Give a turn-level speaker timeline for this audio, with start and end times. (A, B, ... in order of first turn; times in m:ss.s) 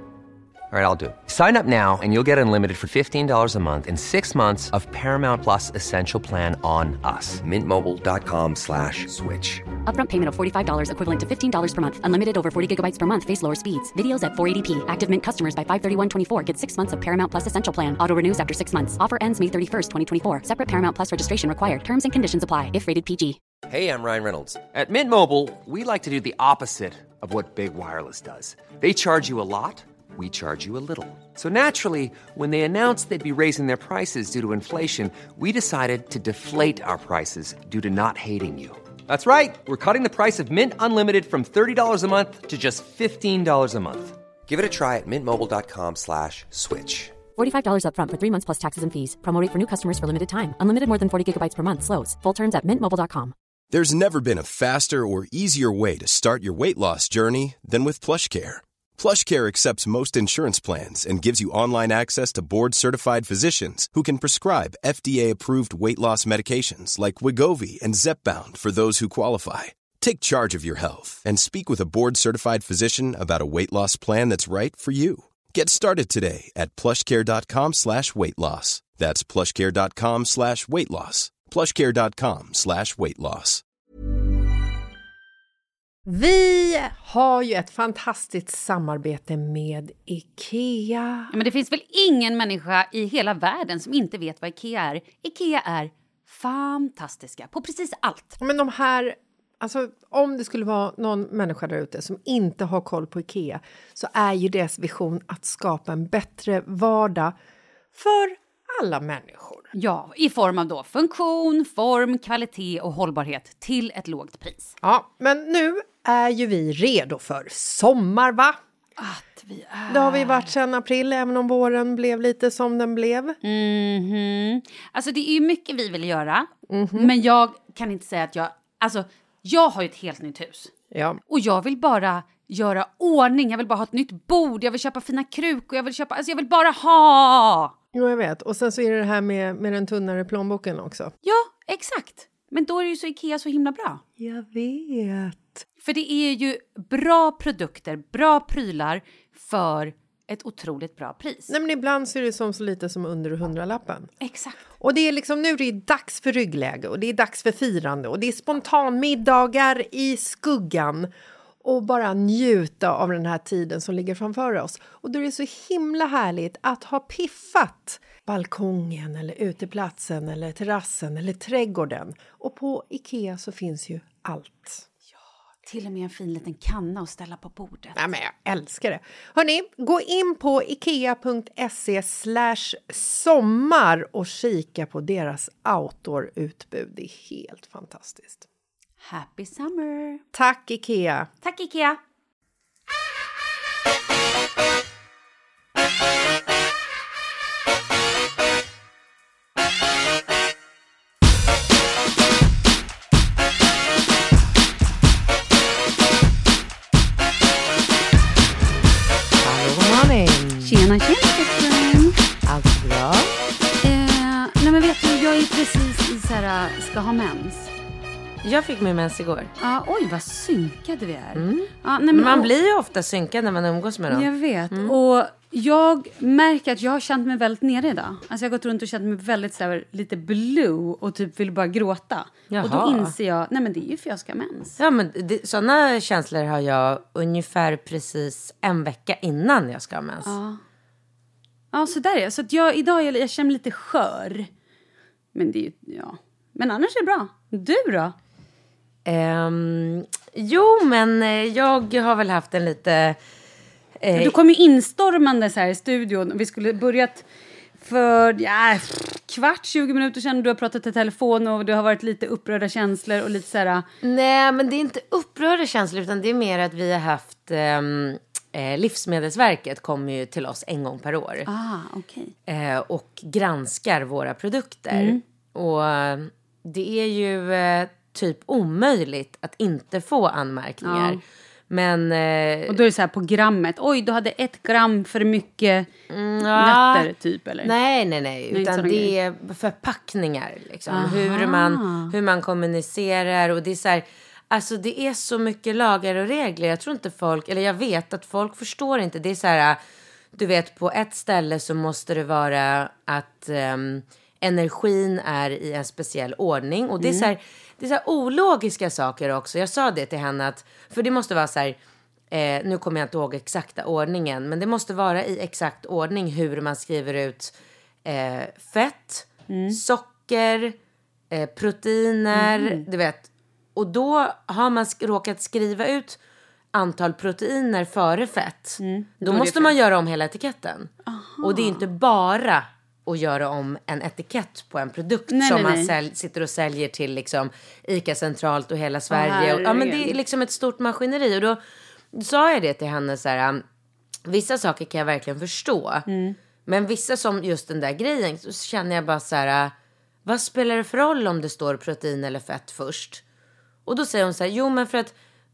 0:00.7-0:09.6 A
0:09.9-0:23.4 B
0:23.7-0:47.1 A
0:47.4-0:53.3 B
0:53.7-1:23.6 C
1:26.1-1:31.3 D
1:31.3-1:38.4 E
1:38.4-1:47.4 D
1:47.9-1:49.7 D
1:49.7-1:54.8 E
1:54.8-1:58.6 D
1:59.0-2:00.5 E
1:59.9-2:03.4 D
2:03.4-2:10.7 E
2:06.7-2:07.1 D
2:10.9-2:11.2 D
2:11.3-2:17.7 E
2:17.9-2:21.1 D
2:21.2-2:24.0 E
2:24.2-2:25.6 D
2:25.8-2:31.5 E
2:31.5-2:34.1 D
2:34.2-2:34.6 E
2:34.8-2:41.1 D
2:41.6-2:54.9 D
2:55.6-2:58.0 E
2:58.0-3:08.5 D
3:09.0-3:10.2 E
3:10.3-3:11.3 D
3:11.4-3:12.0 E
3:29.4-3:30.8 F
3:30.6-3:32.2 E
3:32.5-3:33.4 F
3:33.8-3:37.7 E
3:38.4-3:39.5 F
3:39.6-3:42.5 E
3:41.4-3:45.0 F
3:44.1-3:54.8 E
3:52.5-3:53.1 F
3:54.8-4:00.4 F
4:00.2-4:00.6 E
4:01.7-4:04.5 E
4:05.3-4:08.2 E
4:09.0-4:13.2 F
4:14.0-4:14.4 F
4:14.1-4:17.2 E
4:17.8-4:23.9 E
4:24.0-4:31.5 F
4:31.5-4:32.3 E
4:32.5-4:42.8 F
4:34.9-4:35.2 E
4:40.8-4:41.2 E
4:42.7-4:45.9 E
4:46.1-4:47.1 F
4:46.4-4:47.7 E
4:47.6-4:59.8 F
4:48.5-4:49.1 E
4:50.9-4:52.1 E
5:00.4-5:11.8 F
5:07.0-5:07.3 E
5:12.3-5:20.8 F
5:19.5-5:19.8 E
5:21.3-5:26.2 F
5:22.3-5:22.9 E
5:26.7-5:30.9 F
5:28.8-5:29.7 E
5:31.1-5:31.8 E
5:31.4-5:41.6 F
5:35.3-5:35.9 E
5:39.1-5:40.2 E
5:42.1-5:43.6 F
5:44.3-5:46.1 F
5:46.1-5:46.4 E
5:46.7-5:49.7 F
5:50.2-5:53.2 F
5:53.9-5:55.2 F